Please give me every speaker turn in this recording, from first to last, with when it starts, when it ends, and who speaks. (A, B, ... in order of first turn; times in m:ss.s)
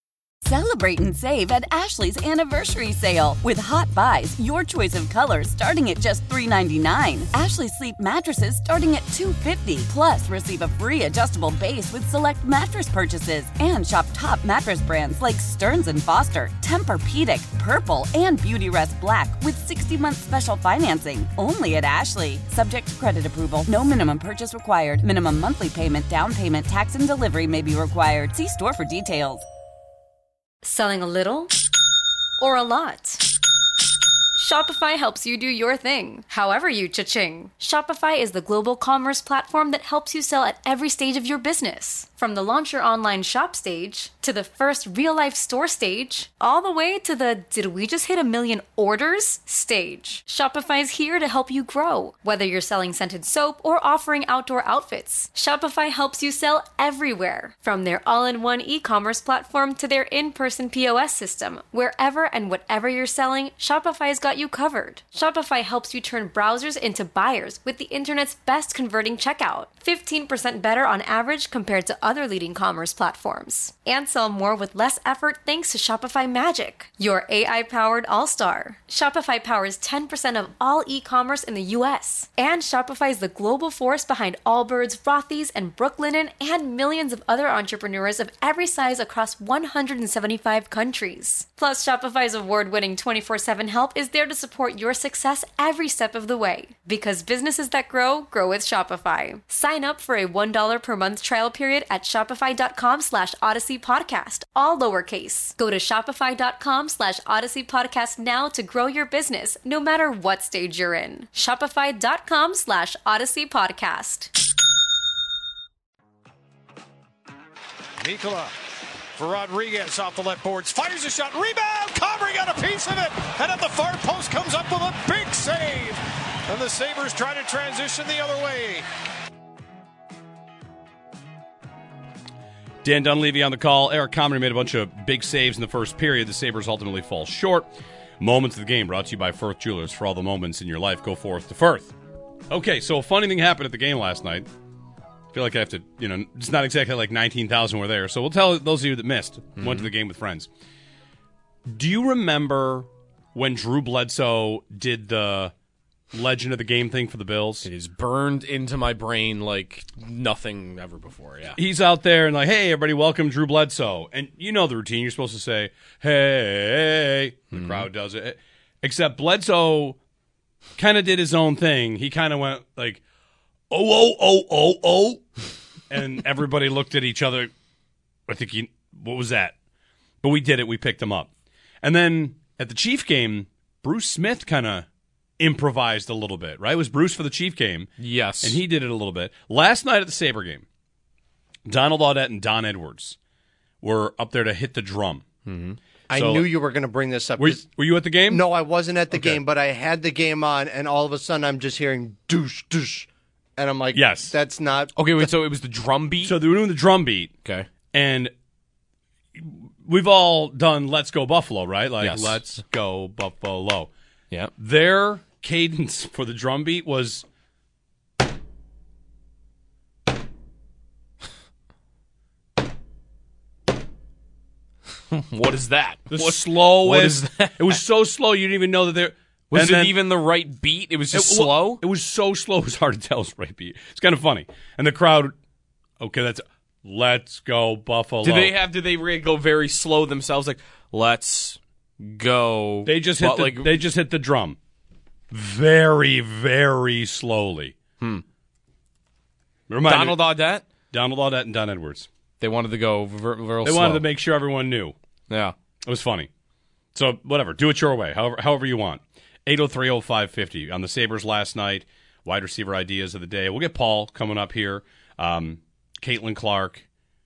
0:00.4-0:29.4 A
0:30.6-0:31.5 B
0:32.4-0:33.3 B
0:34.4-1:54.3 B
1:58.0-1:58.5 C
1:59.2-2:08.8 C
2:12.8-2:21.9 D
2:22.5-2:24.5 D
2:25.3-2:30.5 D
2:29.6-2:29.9 E
2:31.7-2:35.5 D
2:36.1-2:37.7 D
2:37.6-2:41.6 E
2:41.6-2:50.0 D
2:47.5-2:47.9 E
2:50.8-2:53.0 D
2:53.7-2:55.2 D
2:55.9-2:57.5 D
2:58.3-2:59.6 D
3:00.2-3:01.3 D
3:01.8-3:04.9 D
3:05.4-3:10.6 D
3:08.0-3:08.6 E
3:11.6-3:13.2 D
3:13.8-3:15.2 D
3:15.4-3:15.8 E
3:16.1-3:17.7 F
3:16.1-3:16.5 D
3:17.4-3:18.4 D
3:18.3-3:24.9 F
3:19.1-3:19.4 D
3:23.9-3:24.4 D
3:24.9-3:26.4 E
3:26.2-3:27.3 D
3:27.9-3:28.3 D
3:29.4-3:33.9 D
3:32.0-3:32.4 E
3:34.6-3:37.2 D
3:45.1-3:47.8 E
3:46.1-3:50.0 D
3:49.5-3:51.8 E
3:51.1-3:55.4 D
3:56.0-3:58.5 D
3:58.2-4:03.7 E
4:02.8-4:04.6 D
4:05.3-4:07.8 D
4:09.7-4:10.2 D
4:09.8-4:10.6 E
4:10.9-4:12.1 D
4:12.4-4:14.0 E
4:13.6-4:14.9 D
4:15.3-4:15.6 E
4:15.8-4:16.3 D
4:16.9-4:26.8 D